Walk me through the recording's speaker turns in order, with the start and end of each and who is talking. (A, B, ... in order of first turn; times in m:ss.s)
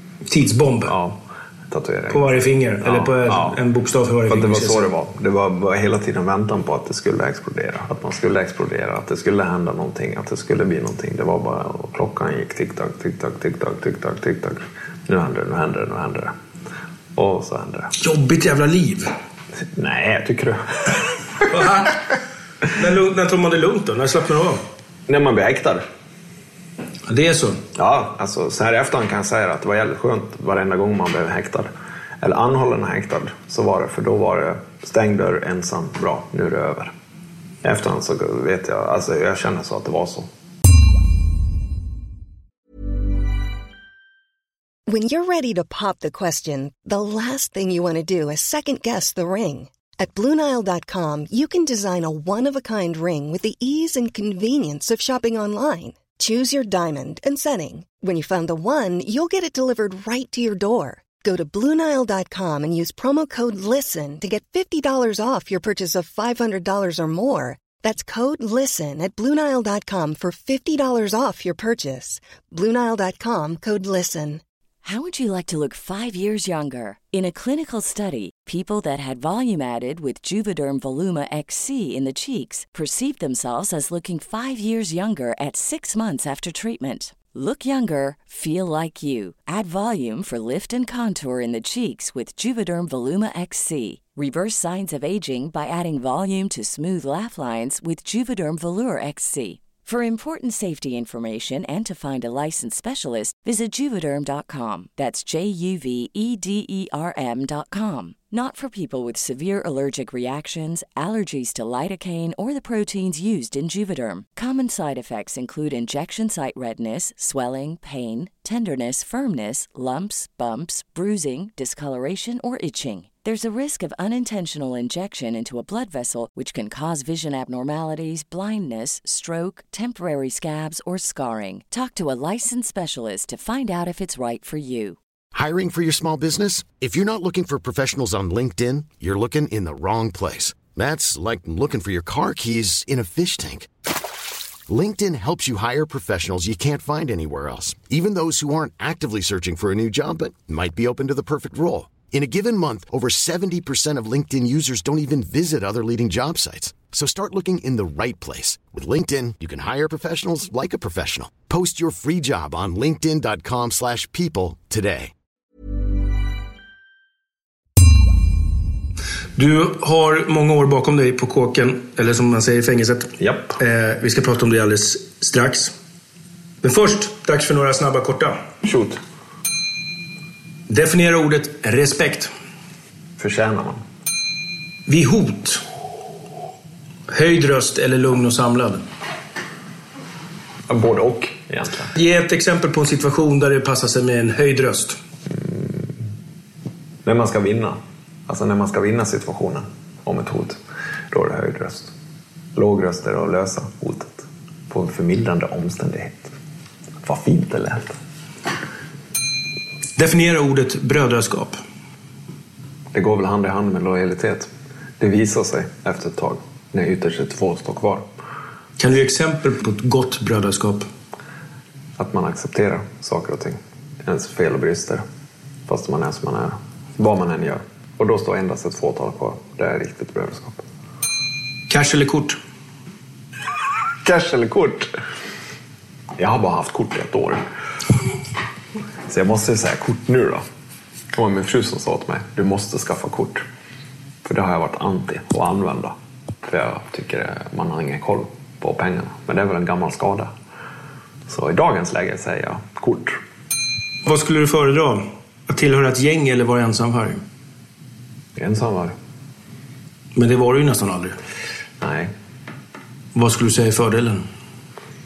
0:00.3-0:00.9 A
0:00.8-0:03.6 B
0:02.1-0:04.9 A
0:04.3-0:16.4 B
0:17.2-0:17.9 B
0:18.0-0:19.1 A
0:19.8-0:21.1 B
0:21.5-0:22.0 A
0:22.7-0:24.6 A
0:25.1-0:25.8 B
0:27.1-0:27.6 A
0:27.8-0:31.7 B
0:32.2-0:36.9 B
0:37.6-0:40.3 B
0:44.9-1:14.4 C
1:14.8-2:15.0 D
2:15.4-2:23.7 E
2:24.7-2:45.1 E
2:49.4-2:55.7 A
2:53.2-2:53.6 B
2:56.6-2:58.4 A
2:58.6-2:59.0 B
3:00.7-3:02.3 A
3:03.2-3:03.8 B
3:04.9-3:05.6 A
3:07.1-3:08.8 A
3:10.7-3:11.9 B
3:12.0-3:15.0 A
3:15.3-3:15.9 B
3:17.0-3:20.6 B
3:21.1-3:21.9 B
3:22.5-3:26.3 B
3:27.0-3:28.0 B
3:30.0-3:31.6 A
3:32.9-3:34.5 B
3:35.0-3:38.1 B
3:38.8-3:40.9 A
3:42.0-3:45.0 B
3:45.7-3:50.6 B
3:51.7-3:52.4 A
3:54.0-3:54.9 B
3:56.2-3:57.4 B
3:59.1-4:00.4 B
4:01.1-4:03.4 B
4:04.2-4:10.3 B
4:11.3-4:13.2 B
4:14.0-4:17.2 A
4:18.4-4:19.0 B
4:20.2-4:21.2 A
4:21.8-4:22.1 B
4:23.2-4:24.2 A